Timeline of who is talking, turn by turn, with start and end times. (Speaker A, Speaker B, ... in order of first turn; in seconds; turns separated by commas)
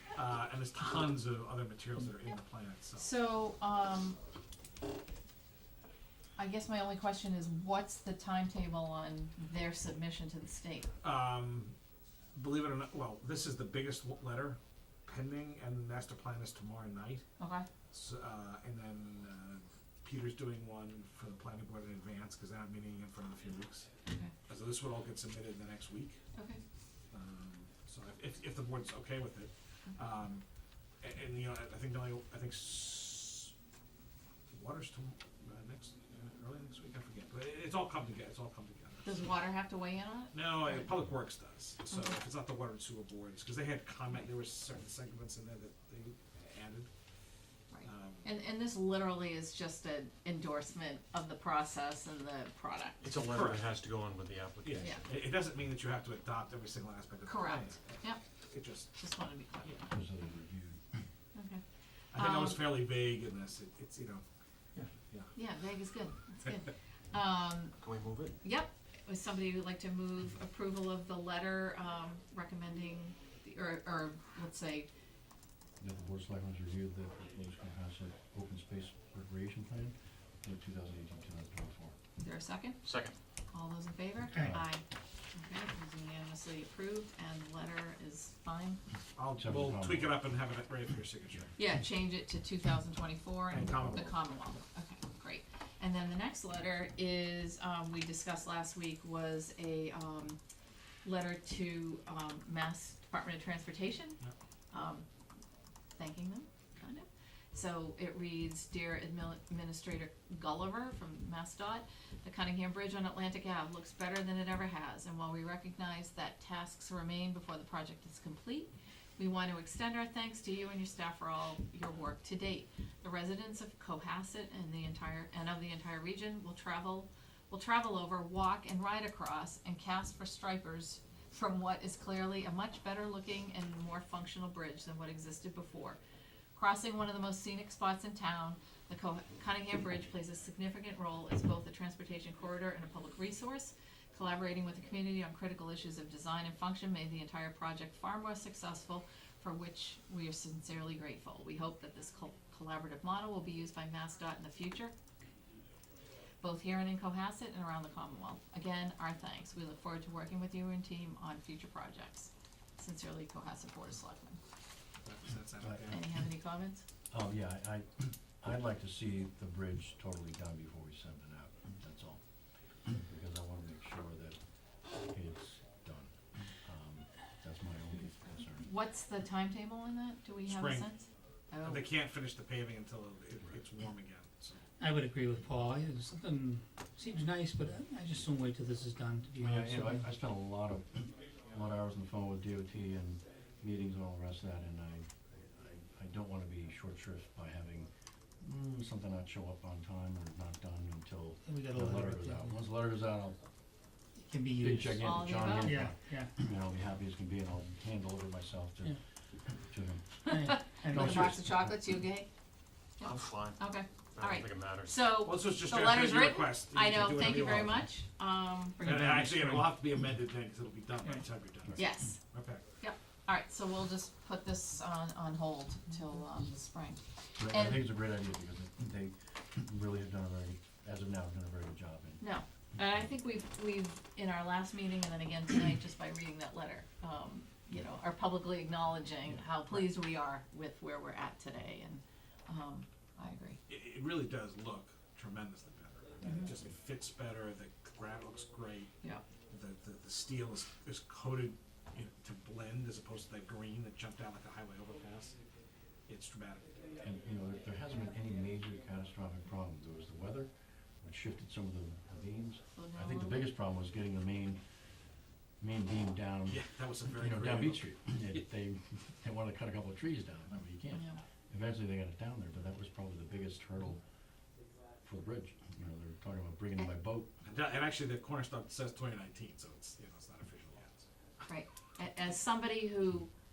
Speaker A: 0.1-3.1, Speaker B: 3.0-4.2, Speaker B: 6.4-10.9, Speaker A: 11.0-11.7, Speaker A: 12.3-17.2, Speaker B: 17.4-17.7, Speaker A: 17.9-23.9, Speaker A: 24.5-26.2, Speaker B: 26.4-26.6, Speaker A: 27.1-30.4, Speaker A: 31.0-33.5, Speaker A: 34.5-39.2, Speaker B: 39.0-40.9, Speaker A: 40.3-46.9, Speaker B: 47.7-53.0, Speaker A: 47.8-48.2, Speaker C: 53.0-55.0, Speaker A: 53.1-53.7, Speaker A: 54.6-58.0, Speaker B: 57.3-58.2, Speaker A: 58.5-58.9, Speaker B: 59.0-59.9, Speaker D: 59.9-61.0, Speaker B: 61.3-61.6, Speaker A: 62.1-64.2, Speaker B: 62.1-62.7, Speaker A: 64.9-65.3, Speaker B: 65.3-67.8, Speaker C: 67.8-68.3, Speaker B: 68.4-74.9, Speaker D: 75.8-81.9, Speaker B: 82.2-82.8, Speaker C: 82.8-83.2, Speaker B: 83.5-84.8, Speaker B: 85.3-88.8, Speaker A: 89.2-91.5, Speaker D: 89.4-90.2, Speaker B: 91.6-100.4, Speaker A: 93.5-94.1, Speaker B: 101.0-104.2, Speaker B: 104.7-105.0, Speaker B: 106.0-136.0, Speaker B: 136.6-154.9, Speaker B: 156.4-164.4, Speaker A: 165.0-166.0, Speaker B: 165.9-166.8, Speaker D: 167.1-172.2, Speaker D: 172.8-174.4, Speaker D: 175.0-178.6, Speaker B: 178.6-181.9, Speaker A: 180.5-180.9, Speaker A: 181.6-184.6, Speaker E: 184.8-190.1, Speaker D: 189.4-197.9, Speaker D: 198.4-203.4, Speaker E: 201.4-202.5, Speaker E: 204.3-205.0, Speaker D: 204.6-210.2, Speaker B: 205.0-205.7, Speaker E: 205.6-206.3, Speaker B: 210.3-212.3, Speaker E: 210.3-211.3, Speaker D: 210.9-211.8, Speaker B: 213.0-219.6, Speaker C: 213.0-213.6, Speaker C: 214.2-214.9, Speaker A: 215.2-217.9, Speaker A: 218.8-222.6, Speaker B: 221.8-222.2, Speaker B: 222.8-227.8, Speaker D: 227.4-232.2, Speaker B: 232.2-243.6, Speaker A: 243.7-248.9, Speaker A: 249.5-255.3, Speaker A: 256.1-256.8, Speaker D: 257.0-264.6, Speaker B: 262.7-263.5, Speaker D: 265.6-274.0, Speaker A: 266.5-267.9, Speaker B: 270.9-271.2, Speaker D: 275.0-277.3, Speaker A: 277.4-281.0, Speaker B: 281.4-283.3